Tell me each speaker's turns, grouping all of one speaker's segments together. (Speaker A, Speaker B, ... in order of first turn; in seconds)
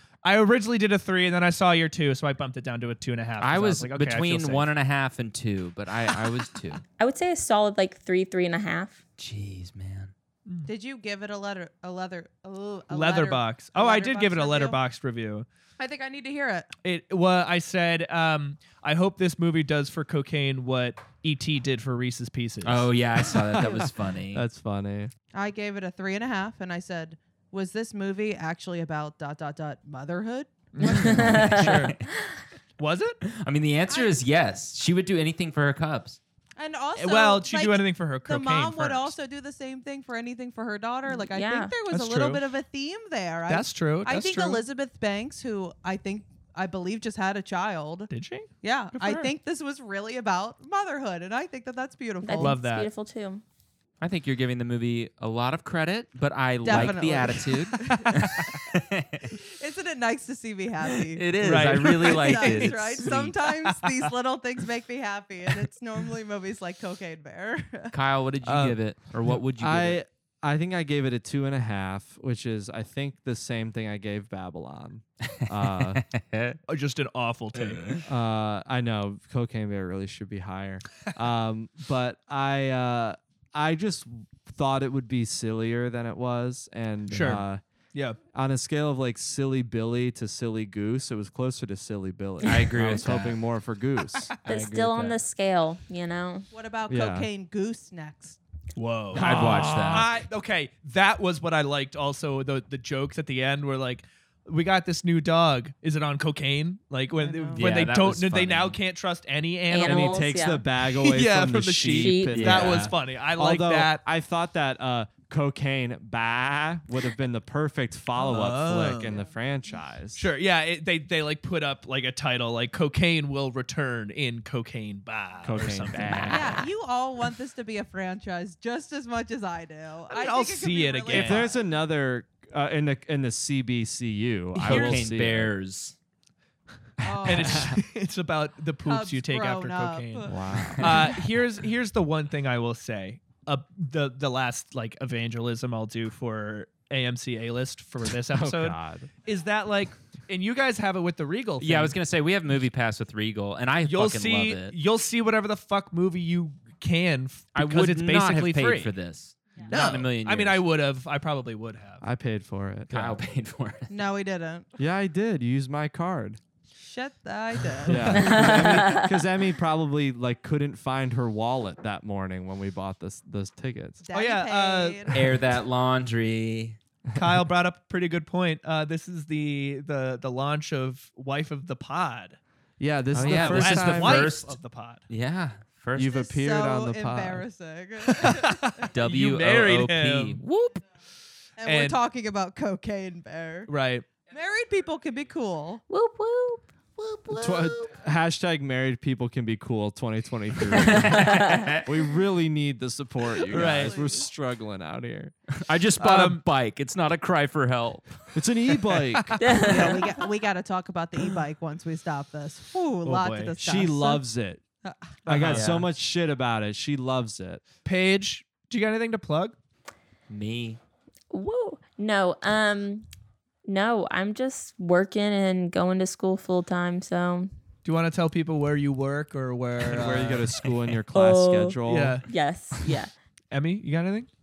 Speaker A: 0.2-4.7, 12.9-15.5, 16.8-22.9, 30.7-32.0, 32.8-33.2, 37.0-39.1, 41.9-42.4, 43.5-44.6, 48.1-49.3, 52.4-52.9, 58.0-58.4, 61.4-64.1, 76.7-77.9, 87.1-88.2, 98.8-110.3, 110.9-114.0, 118.2-119.2, 120.2-126.3, 130.1-131.5, 134.6-135.1, 137.2-152.0, 153.8-158.9, 159.7-162.0, 167.8-168.4, 174.1-175.3, 177.1-182.4, 183.3-185.0, 188.1-190.4, 191.6-192.0, 193.7-194.1, 203.5-203.9, 206.0-206.4, 209.1-209.7, 213.1-213.6, 215.2-215.8, 217.8-219.6, 227.8-230.7, 231.9-232.3, 233.5-234.3
Speaker B: 3.4-6.8, 9.2-10.1, 22.6-24.4, 31.2-32.0, 33.3-36.2, 54.0-59.3, 60.9-63.4, 67.9-70.0, 75.9-76.6, 77.6-78.0, 92.4-93.4, 94.5-95.2, 99.1-100.2, 107.5-108.8, 112.3-112.9, 125.6-126.5, 134.6-136.0, 137.3-137.6, 151.6-154.8, 157.6-160.6, 162.9-163.9, 175.1-176.8, 183.1-184.6, 185.1-186.2, 188.8-190.8, 200.8-201.9, 205.6-208.2, 215.4-215.9, 220.3-220.8
Speaker C: 7.0-9.0, 30.8-32.3, 41.1-41.7, 52.2-53.4, 94.5-96.5, 109.7-110.7, 111.9-112.5, 126.3-126.6, 168.2-169.1, 195.9-197.7, 200.9-201.8, 209.4-210.1, 221.3-223.1, 223.7-227.5, 231.1-233.1
Speaker D: 10.7-14.8, 15.8-16.7, 25.3-30.6, 33.9-34.2, 36.6-48.1, 48.6-52.6, 56.6-58.6, 59.4-61.2, 61.8-68.0, 96.5-98.4, 107.2-107.8, 119.0-119.3, 126.3-131.6, 137.0-137.7, 138.9-141.1, 163.9-164.7, 166.8-168.4, 174.1-175.3, 186.1-188.6, 191.6-193.7, 194.3-195.8, 203.5-204.3, 209.6-214.2, 214.8-215.1
Speaker E: 23.4-25.1, 68.5-68.7, 69.6-76.0, 78.1-87.6, 88.3-94.3, 96.9-97.3, 99.1-100.1, 109.8-120.3, 125.4-126.6, 131.1-135.5, 140.3-141.0, 148.3-149.1, 162.0-163.2, 164.8-166.4, 167.9-174.0, 182.8-184.3, 186.0-187.5, 197.3-205.3, 208.3-209.7, 213.6-214.6, 215.2-217.6, 229.8-232.2